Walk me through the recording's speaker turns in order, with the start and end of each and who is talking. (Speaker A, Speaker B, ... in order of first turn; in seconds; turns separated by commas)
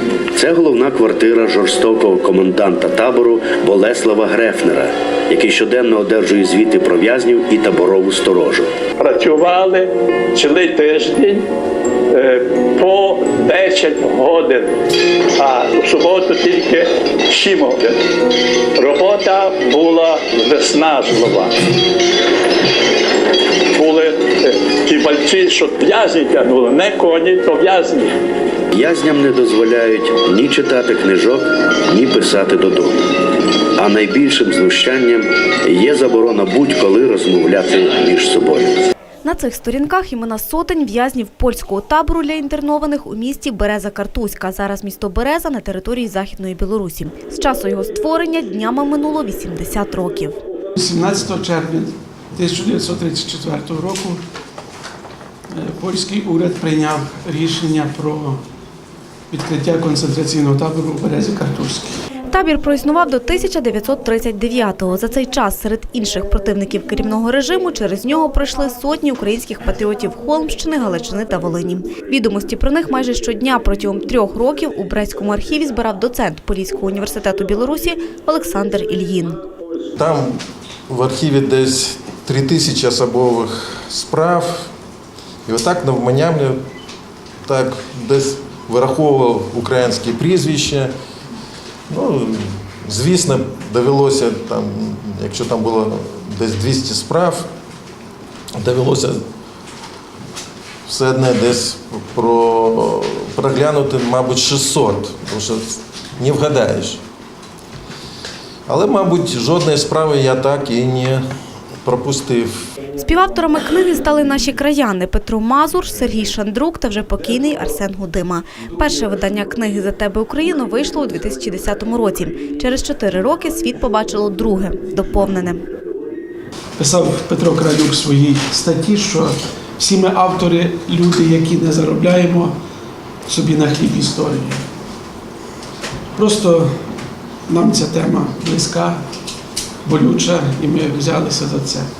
Speaker A: 0.3-8.7, Speaker B: 9.0-11.5, Speaker B: 12.1-14.8, Speaker B: 15.4-18.1, Speaker B: 18.8-21.8, Speaker B: 23.7-28.2, Speaker A: 28.7-33.0, Speaker A: 33.8-38.8, Speaker C: 39.2-50.4, Speaker D: 50.7-54.2, Speaker D: 55.5-58.4, Speaker D: 59.3-62.0, Speaker C: 62.3-79.4, Speaker E: 80.0-84.7, Speaker E: 85.5-86.6, Speaker E: 87.4-90.9, Speaker E: 91.9-97.5, Speaker E: 98.6-99.2, Speaker E: 100.9-107.0, Speaker E: 108.7-111.2, Speaker E: 111.8-112.7, Speaker C: 113.0-125.6, Speaker D: 126.8-132.5, Speaker D: 133.3-134.6, Speaker D: 136.2-136.7, Speaker D: 137.5-139.0, Speaker D: 139.8-141.9